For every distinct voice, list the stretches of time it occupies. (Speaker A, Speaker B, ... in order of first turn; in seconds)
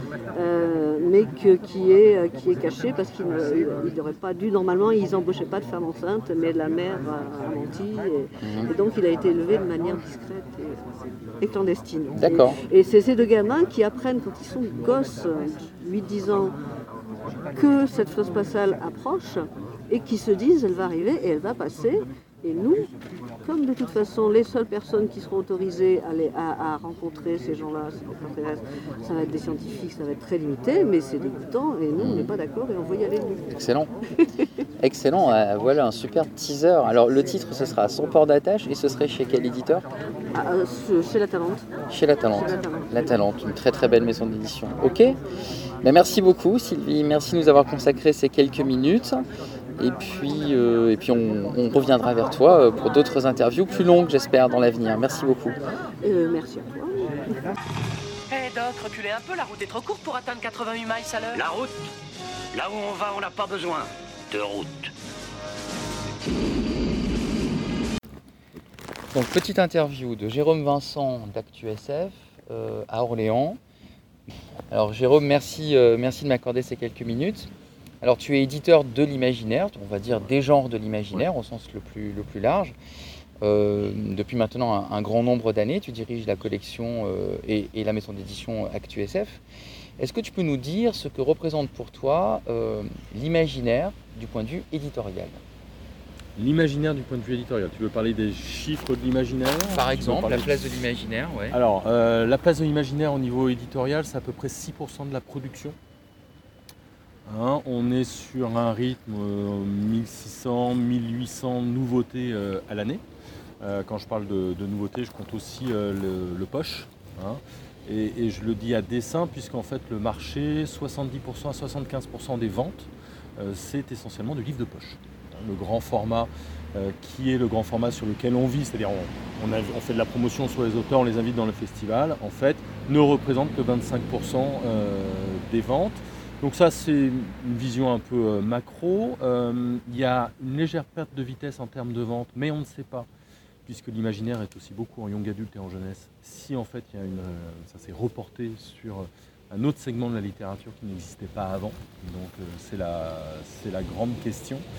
Speaker A: 0.3-10.8, 11.4-16.5, 17.5-22.9, 23.4-33.4, 34.2-34.4, 40.3-41.6, 42.3-43.2, 56.0-57.1
Speaker B: 8.4-8.7, 12.1-12.6, 31.9-32.3, 33.5-33.9, 34.8-39.9, 41.9-45.2, 45.8-49.2, 49.8-55.6, 69.1-73.6, 74.7-77.5, 78.0-82.7, 83.4-89.4, 90.0-95.4, 99.7-101.6
Speaker C: 58.3-61.4
Speaker D: 61.3-61.8, 62.5-64.9
Speaker E: 96.4-100.8, 101.5-105.8, 107.2-113.0, 113.6-143.1, 143.7-154.6